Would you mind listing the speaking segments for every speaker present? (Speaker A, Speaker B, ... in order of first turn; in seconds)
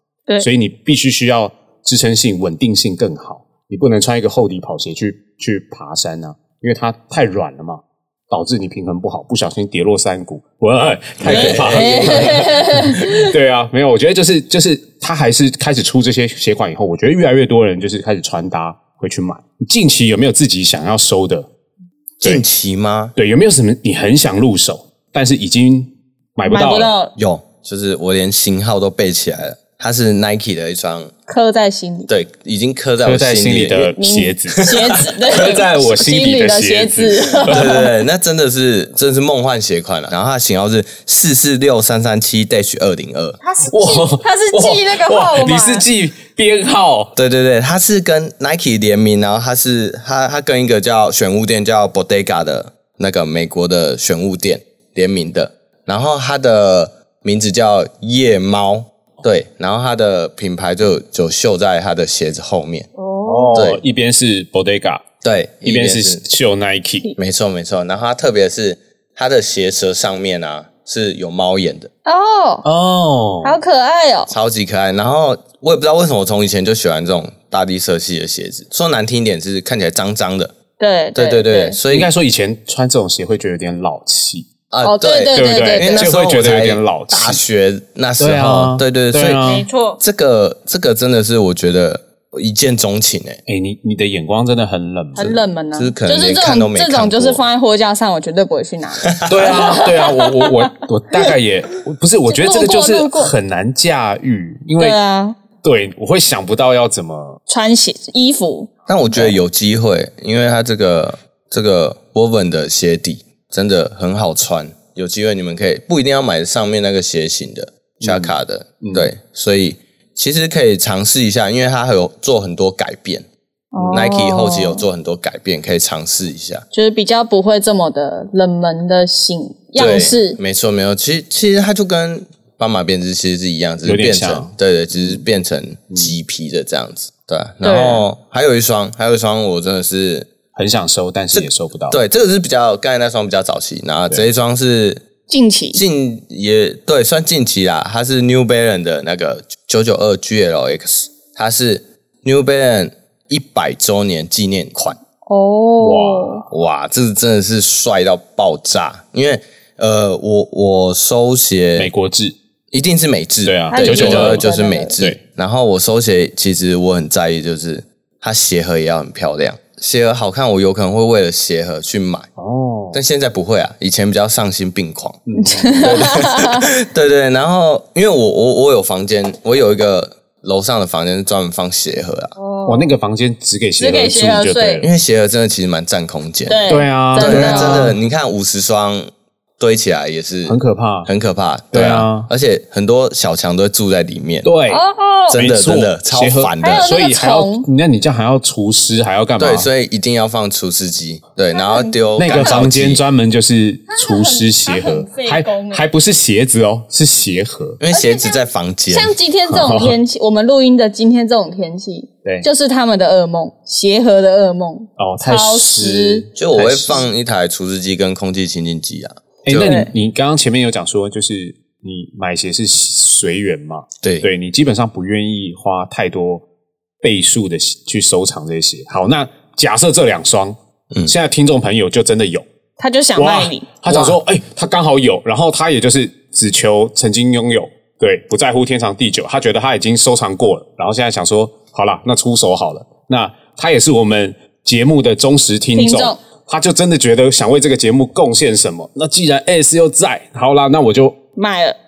Speaker A: 0.4-21.5, 23.2-26.9, 33.0-34.7, 35.2-37.8, 43.7-47.1, 63.3-65.0, 65.6-67.1, 72.6-73.6, 81.9-84.5, 85.3-87.4, 88.2-89.6, 93.5-95.4, 99.3-105.0, 105.6-107.4, 118.0-119.1, 123.8-124.1, 133.8-135.2, 140.5-142.0, 155.8-156.4, 161.8-162.4, 163.4-164.5, 172.4-173.0, 175.3-175.9, 182.7-184.9, 186.7-188.0, 190.4-191.1, 191.7-192.3, 194.4-194.8, 195.3-199.7, 202.2-207.8, 209.5-209.9, 215.0-217.1, 219.4-226.4, 227.0-232.4, 233.2-251.2
Speaker B: 11.2-12.4, 22.2-23.1, 27.1-31.1, 32.1-33.9, 37.5-43.4, 47.1-62.9, 63.5-63.8, 65.2-66.2, 67.2-71.9, 74.3-80.5, 81.1-82.1, 84.7-93.4, 95.8-97.4, 99.1-99.5, 108.9-123.3, 123.9-126.6, 129.8-140.3, 141.3-145.0, 145.7-155.0, 156.5-161.9, 162.7-172.3, 172.9-175.2, 175.8-182.3, 184.8-194.5, 195.3-196.9, 199.4-203.0, 207.8-209.1, 216.4-219.8, 224.0-224.3, 233.9-234.2
Speaker C: 11.2-13.3, 26.4-27.1, 31.3-32.1, 34.0-37.9, 43.4-45.9, 63.0-63.6, 72.1-72.6, 73.4-74.3, 80.8-81.8, 84.8-86.1, 89.4-90.0, 95.2-101.3, 102.3-103.3, 104.8-105.4, 107.5-109.3, 123.7-124.8, 126.7-130.4, 137.6-138.1, 145.3-145.8, 155.3-156.4, 163.7-164.9, 175.4-176.7, 182.4-182.9, 183.8-184.8, 186.5-187.9, 194.7-195.4, 196.6-197.7, 201.5-202.6, 203.9-205.8, 207.9-216.2, 219.6-219.9, 232.8-233.7, 245.8-246.2, 251.4-251.8